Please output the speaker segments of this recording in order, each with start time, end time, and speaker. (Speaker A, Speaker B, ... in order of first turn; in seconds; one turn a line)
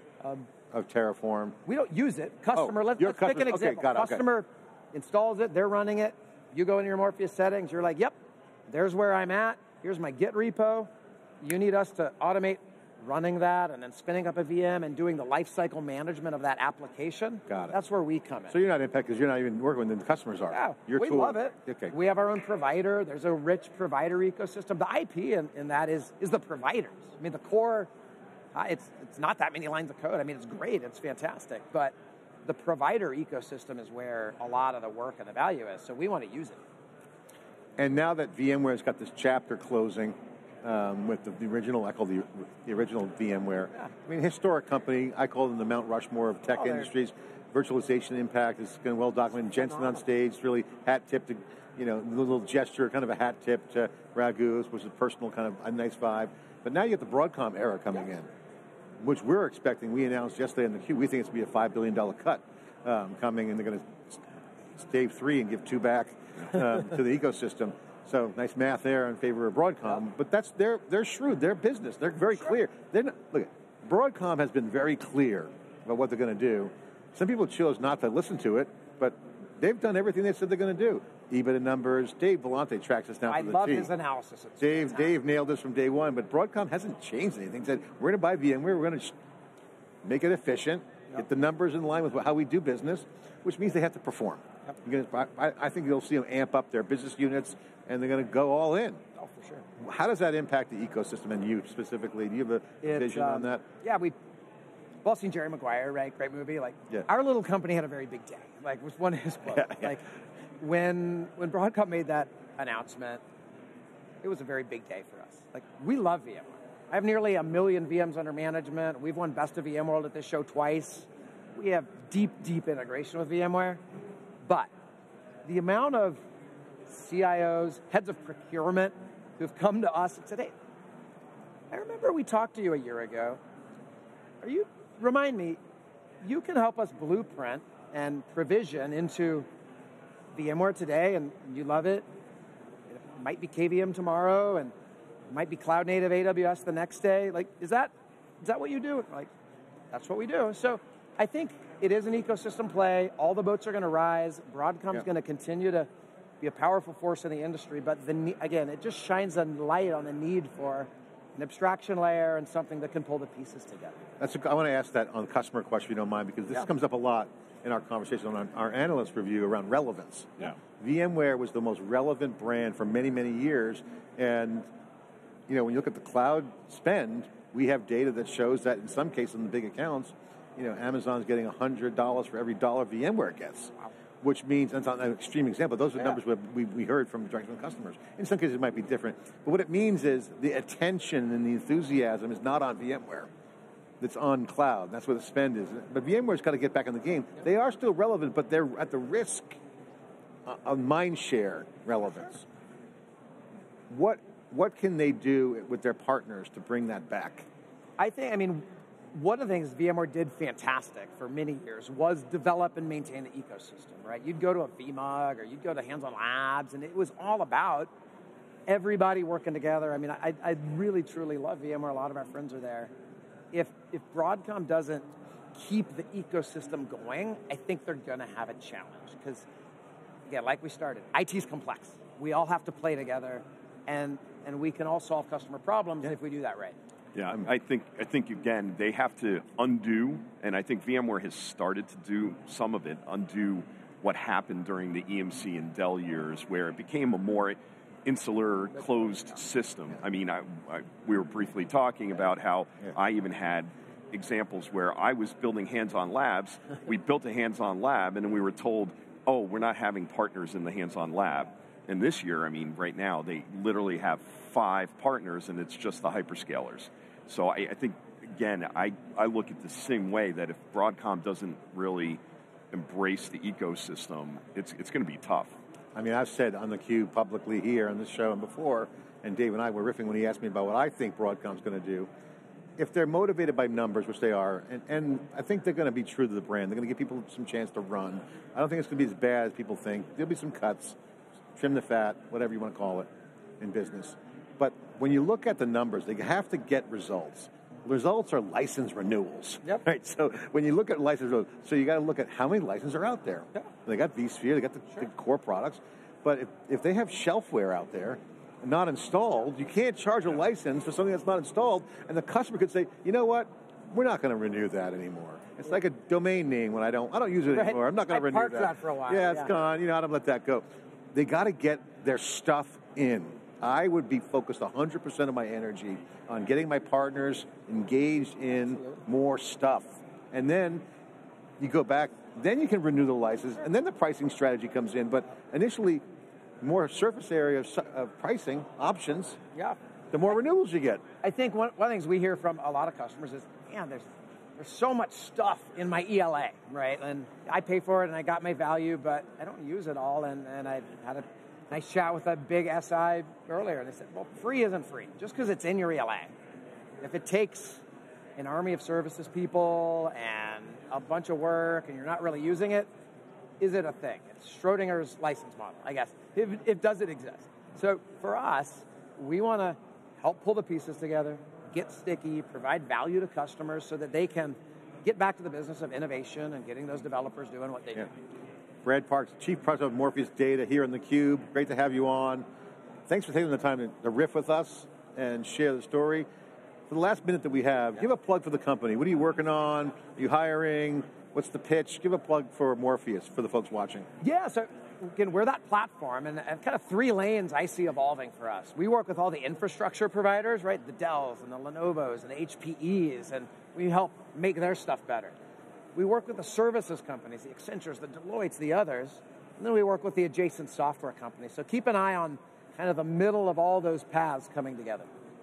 Speaker A: 0.7-1.6
Speaker B: 1.7-8.1
Speaker A: 2.5-4.2
Speaker B: 8.7-10.9
Speaker B: 11.4-18.5
Speaker A: 17.5-17.8
Speaker A: 18.5-21.9
Speaker B: 20.5-27.9
Speaker B: 28.5-31.9
Speaker B: 32.5-36.6
Speaker A: 37.8-58.3
Speaker B: 46.6-46.8
Speaker A: 59.0-64.2
Speaker A: 64.8-83.9
Speaker B: 83.3-85.2
Speaker A: 84.6-89.2
Speaker A: 90.0-99.0
Speaker B: 99.2-99.7
Speaker A: 99.8-103.6
Speaker B: 102.8-104.1
Speaker B: 105.0-110.0
Speaker A: 109.6-109.9
Speaker B: 110.6-113.2
Speaker B: 114.2-123.8
Speaker B: 124.4-124.7
Speaker B: 125.5-126.2
Speaker B: 126.9-130.5
Speaker B: 131.7-133.4
Speaker B: 134.4-135.6
Speaker B: 136.2-139.5
Speaker B: 140.3-142.1
Speaker B: 142.9-144.7
Speaker B: 145.3-149.3
Speaker B: 149.9-155.9
Speaker B: 156.4-164.0
Speaker A: 164.2-174.7
Speaker A: 175.5-193.3
Speaker A: 194.0-199.6
Speaker A: 200.5-202.5
Speaker A: 203.9-207.4
Speaker B: 208.0-217.9
Speaker B: 218.7-222.9
Speaker B: 223.5-229.5
Speaker B: 230.3-236.8
Speaker C: 237.2-272.2
Speaker C: 272.7-275.5
Speaker A: 275.9-282.1
Speaker A: 282.8-291.0
Speaker A: 291.6-293.1
Speaker A: 293.6-330.8
Speaker B: 317.5-319.5
Speaker A: 331.6-336.0
Speaker A: 336.6-339.4
Speaker A: 340.1-341.0
Speaker B: 341.2-356.3
Speaker B: 357.0-357.8
Speaker B: 358.4-362.9
Speaker B: 363.6-378.1
Speaker A: 378.9-382.4
Speaker A: 383.1-386.3
Speaker A: 386.9-394.1
Speaker B: 394.2-405.3
Speaker B: 405.9-415.1